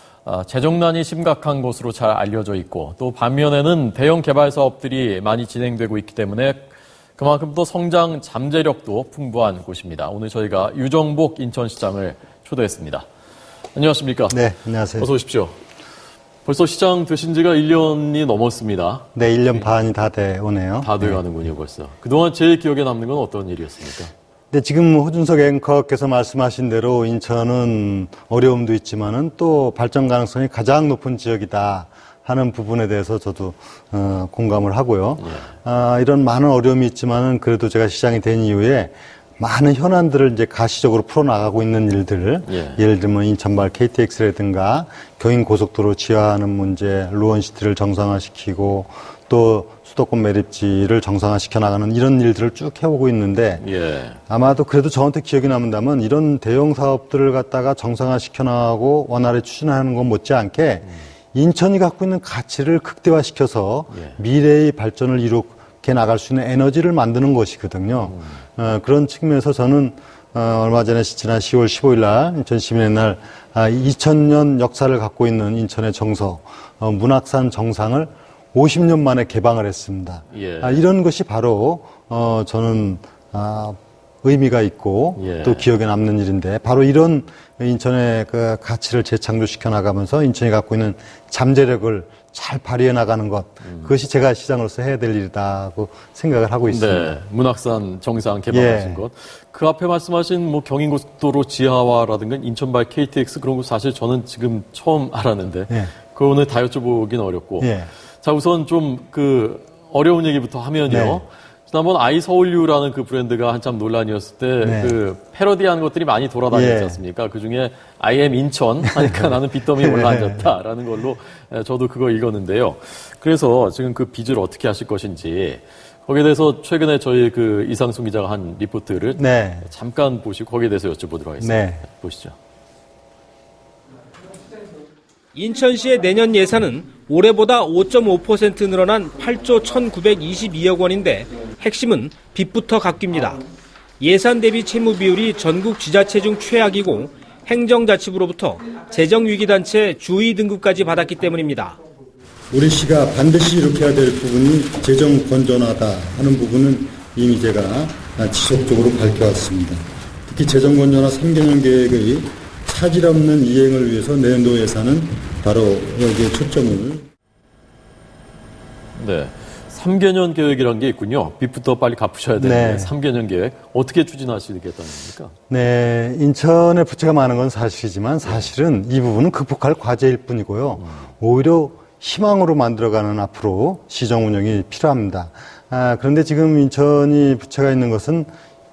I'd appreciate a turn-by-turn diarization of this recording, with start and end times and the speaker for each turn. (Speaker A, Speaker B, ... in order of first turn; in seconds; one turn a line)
Speaker A: 0.2-13.1
Speaker A: 13.8-14.4
Speaker B: 14.3-15.1
Speaker A: 15.0-15.6
Speaker A: 16.4-19.7
Speaker B: 19.1-21.2
Speaker A: 20.8-24.1
Speaker B: 24.5-53.6
Speaker A: 35.2-35.5
Speaker A: 42.5-42.8
Speaker A: 53.6-54.2
Speaker B: 54.3-97.2
Speaker A: 63.9-64.2
Speaker A: 68.1-68.4
Speaker A: 80.3-80.8
Speaker A: 85.2-85.7
Speaker A: 93.7-93.9
Speaker A: 96.7-132.4
Speaker B: 98.5-99.0
Speaker B: 107.6-107.9
Speaker B: 110.9-111.2
Speaker B: 114.6-114.9
Speaker B: 116.5-117.0
Speaker B: 119.0-119.2
Speaker B: 119.8-120.5
Speaker B: 129.2-129.7
Speaker B: 131.4-131.8
Speaker C: 135.3-143.4
Speaker C: 144.0-151.8
Speaker B: 152.5-167.1
Speaker A: 168.9-175.3
Speaker B: 172.4-172.9
Speaker B: 175.5-188.3
Speaker A: 178.2-178.5